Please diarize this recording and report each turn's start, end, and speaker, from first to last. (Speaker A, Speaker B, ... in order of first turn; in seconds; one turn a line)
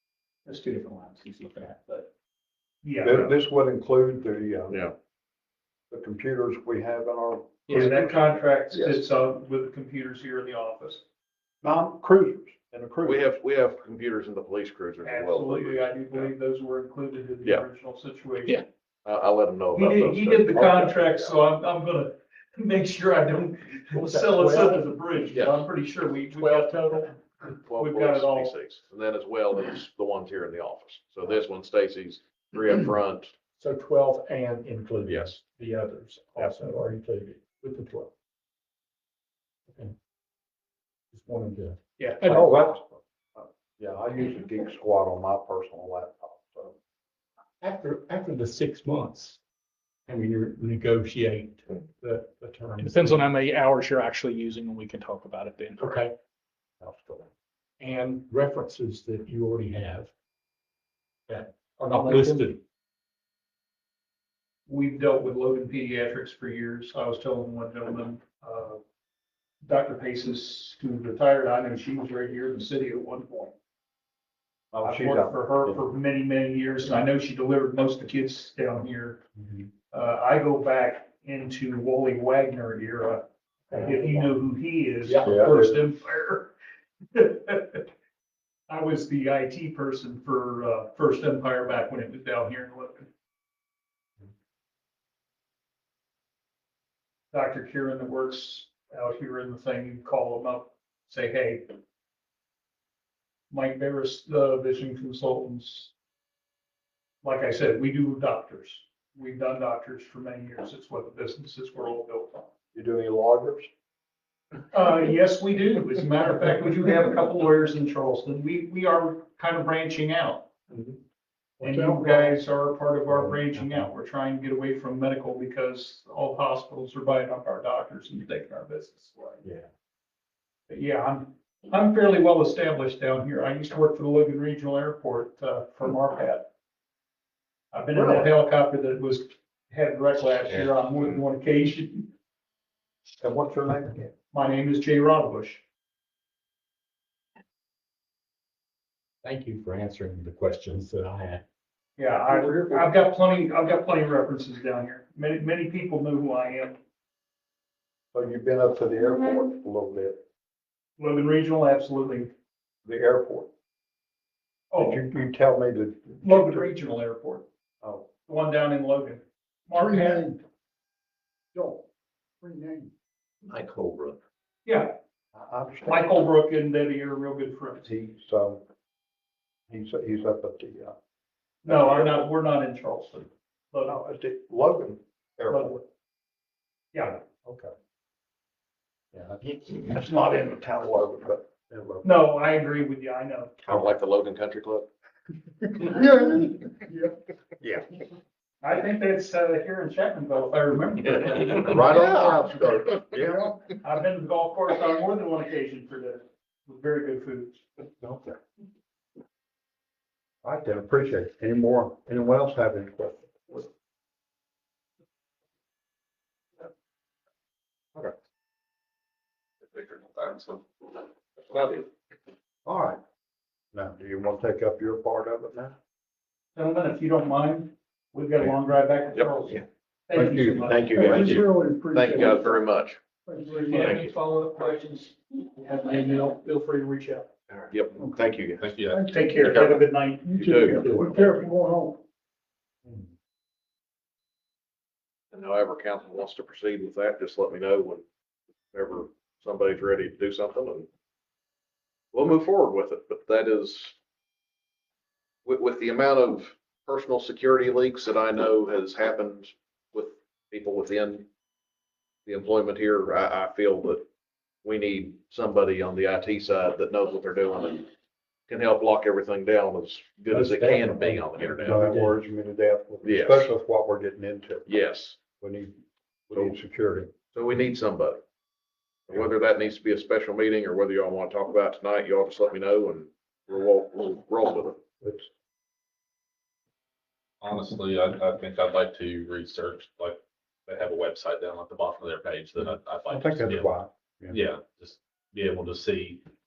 Speaker A: 0.5-2.1
Speaker A: 2.8-3.3
Speaker B: 3.0-4.9
Speaker C: 4.7-5.0
Speaker B: 5.9-8.1
Speaker A: 7.7-11.0
Speaker B: 8.7-9.0
Speaker B: 11.6-13.3
Speaker C: 13.0-16.3
Speaker A: 15.0-18.6
Speaker C: 19.1-21.3
Speaker A: 19.7-27.2
Speaker D: 23.9-24.8
Speaker C: 25.3-25.6
Speaker C: 27.7-33.3
Speaker A: 27.7-28.6
Speaker D: 33.6-38.1
Speaker C: 35.1-35.4
Speaker D: 41.1-42.7
Speaker B: 42.2-46.8
Speaker D: 47.6-49.4
Speaker D: 50.1-53.2
Speaker E: 52.8-56.0
Speaker D: 55.8-56.1
Speaker D: 56.8-57.3
Speaker D: 57.8-60.1
Speaker D: 61.3-62.6
Speaker A: 64.7-68.8
Speaker A: 69.6-73.5
Speaker B: 74.7-75.8
Speaker A: 74.8-79.2
Speaker A: 79.9-86.5
Speaker B: 83.7-84.2
Speaker B: 85.1-85.8
Speaker A: 87.1-87.9
Speaker A: 88.7-93.1
Speaker A: 97.3-101.8
Speaker A: 103.5-105.9
Speaker A: 107.2-112.5
Speaker B: 112.7-113.7
Speaker A: 114.7-120.5
Speaker A: 121.6-129.4
Speaker B: 121.6-122.3
Speaker A: 130.7-136.5
Speaker A: 137.7-142.1
Speaker B: 138.0-138.3
Speaker B: 143.2-144.1
Speaker A: 144.3-145.6
Speaker D: 149.2-151.4
Speaker A: 152.0-156.8
Speaker B: 152.3-152.9
Speaker B: 158.1-160.2
Speaker A: 161.0-162.3
Speaker B: 162.8-163.5
Speaker A: 164.7-165.0
Speaker B: 164.8-166.7
Speaker A: 166.2-167.5
Speaker B: 167.8-168.1
Speaker A: 168.3-170.3
Speaker B: 169.7-170.4
Speaker B: 171.5-171.9
Speaker B: 172.4-172.9
Speaker D: 173.7-174.2
Speaker A: 174.7-175.0
Speaker B: 175.3-176.0
Speaker A: 175.9-177.9
Speaker B: 177.8-178.6
Speaker B: 179.7-180.9
Speaker A: 181.6-184.0
Speaker B: 181.7-182.2
Speaker B: 183.9-185.8
Speaker A: 185.5-185.8
Speaker A: 186.9-187.2
Speaker B: 187.4-187.7
Speaker B: 189.1-192.1
Speaker A: 192.0-193.8
Speaker C: 193.7-194.9
Speaker B: 195.7-198.0
Speaker A: 198.6-202.1
Speaker B: 201.5-203.8
Speaker A: 203.8-207.7
Speaker B: 208.0-208.4
Speaker B: 210.4-213.7
Speaker F: 219.8-220.1
Speaker B: 222.7-223.0
Speaker B: 223.7-225.8
Speaker A: 226.6-232.2
Speaker B: 230.1-231.6
Speaker C: 230.7-233.0
Speaker A: 233.3-237.3
Speaker C: 233.7-234.1
Speaker C: 237.7-238.6
Speaker F: 238.6-239.1
Speaker A: 238.9-241.9
Speaker C: 239.4-241.1
Speaker B: 240.6-241.3
Speaker C: 245.3-248.0
Speaker C: 248.7-250.9
Speaker C: 252.1-254.0
Speaker C: 255.4-261.3
Speaker C: 262.3-264.0
Speaker C: 264.6-267.9
Speaker C: 268.5-271.8
Speaker D: 270.3-272.2
Speaker B: 271.6-274.7
Speaker C: 273.0-273.5
Speaker C: 274.7-275.2
Speaker B: 275.4-277.1
Speaker C: 276.3-276.6
Speaker C: 277.3-278.2
Speaker C: 279.1-284.8
Speaker B: 285.0-285.3
Speaker F: 287.4-293.7
Speaker B: 293.1-294.4
Speaker F: 294.3-296.2